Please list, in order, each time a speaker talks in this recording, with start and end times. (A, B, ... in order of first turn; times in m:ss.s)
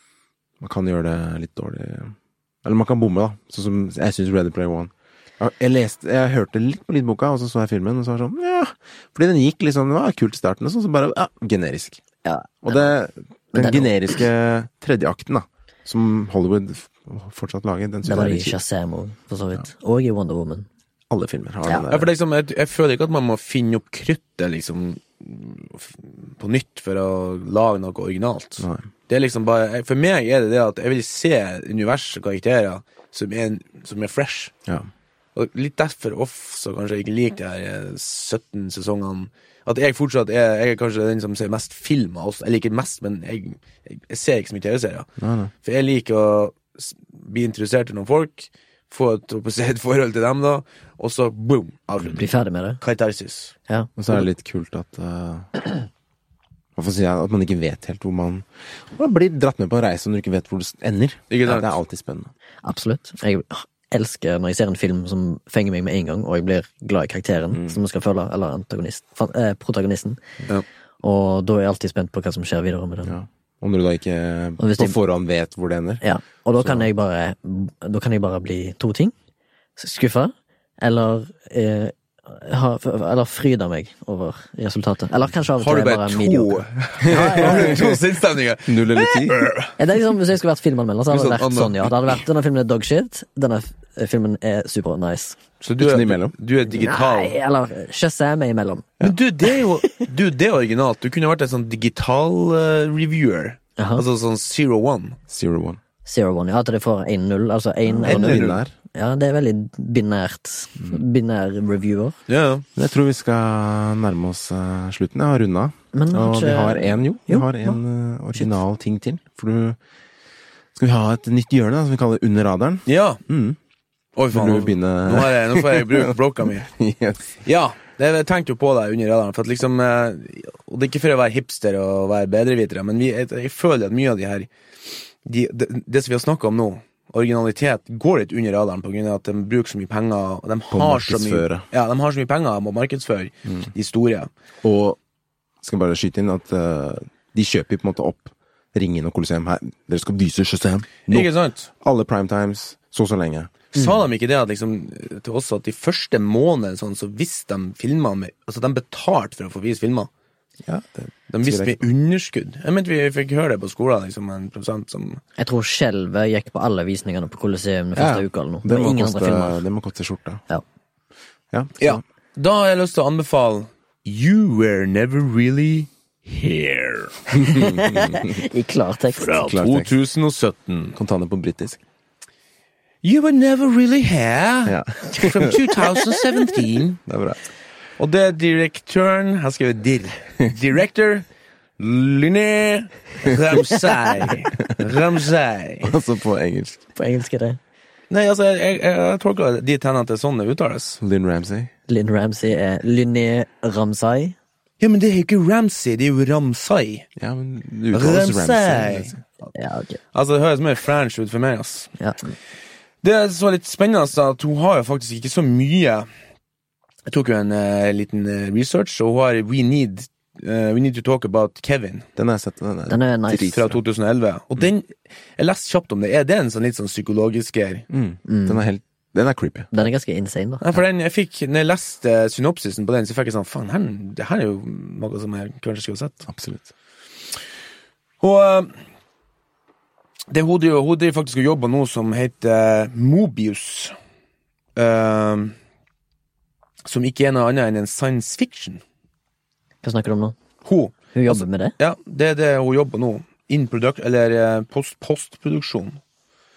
0:00.6-0:12.0 A
0:12.2-0:12.9 B
0:12.6-0:18.6 A
0:13.5-0:13.9 B
0:18.0-0:20.7 B
0:21.1-0:22.1 A
0:21.9-0:34.5 C
0:28.6-0:28.9 A
0:35.3-0:45.1 C
0:45.2-0:45.5 A
0:45.6-0:53.5 C
0:52.1-0:52.8 B
0:54.0-0:55.6 A
0:56.8-1:02.3 A
1:01.3-1:01.8 C
1:02.6-1:10.2 B
1:07.5-1:07.8 A
1:11.0-1:13.1 B
1:13.0-1:16.0 A
1:14.6-1:14.9 B
1:16.0-1:19.1 B
1:16.6-1:16.9 A
1:19.8-1:27.9 B
1:25.6-1:29.7 C
1:27.1-1:27.9 A
1:28.7-1:29.5 A
1:29.8-1:35.4 B
1:31.1-1:32.2 C
1:35.6-1:37.4 C
1:35.8-1:36.3 A
1:36.7-1:38.9 B
1:39.0-1:45.2 C
1:43.8-1:44.0 B
1:45.3-1:45.8 A
1:46.0-1:52.2 B
1:48.0-1:48.7 A
1:48.0-1:48.6 C
1:52.3-1:52.7 C
1:52.8-1:59.8 A
1:55.9-1:57.8 B
2:00.7-2:03.6 A
2:02.9-2:03.2 C
2:04.2-2:06.7 C
2:04.3-2:07.4 A
2:07.4-2:24.3 C
2:20.7-2:21.6 A
2:24.6-2:25.0 A
2:25.6-2:31.3 A
2:31.1-2:31.7 C
2:31.8-2:33.6 A
2:33.7-2:40.1 C
2:40.6-2:41.8 A
2:41.3-2:45.2 C
2:45.4-2:49.6 B
2:48.0-2:50.4 A
2:51.5-2:52.0 A
2:51.8-2:57.3 C
2:57.4-2:58.3 A
2:57.4-2:59.4 B
2:59.2-3:01.0 C
2:59.3-2:59.9 A
3:00.9-3:01.8 A
3:03.0-3:07.0 C
3:04.6-3:05.6 A
3:07.0-3:07.4 A
3:08.0-3:11.2 C
3:11.8-3:15.9 C
3:15.8-3:16.8 A
3:17.0-3:17.6 B
3:18.1-3:21.0 C
3:21.0-3:21.7 A
3:21.9-3:24.4 B
3:24.8-3:27.1 C
3:27.2-3:29.2 A
3:27.9-3:29.5 C
3:29.5-3:30.0 B
3:30.1-3:31.9 C
3:33.0-3:36.1 C
3:37.1-3:42.1 C
3:42.2-3:43.8 A
3:42.9-3:43.5 B
3:43.4-3:47.8 C
3:47.9-3:49.7 A
3:48.3-3:48.6 B
3:49.7-3:50.7 B
3:50.6-3:56.2 C
3:56.3-3:56.7 A
3:58.2-3:58.7 C
4:00.3-4:03.9 C
4:04.8-4:05.5 C
4:06.8-4:08.8 C
4:09.8-4:10.4 B
4:10.6-4:16.0 C
4:11.1-4:11.7 B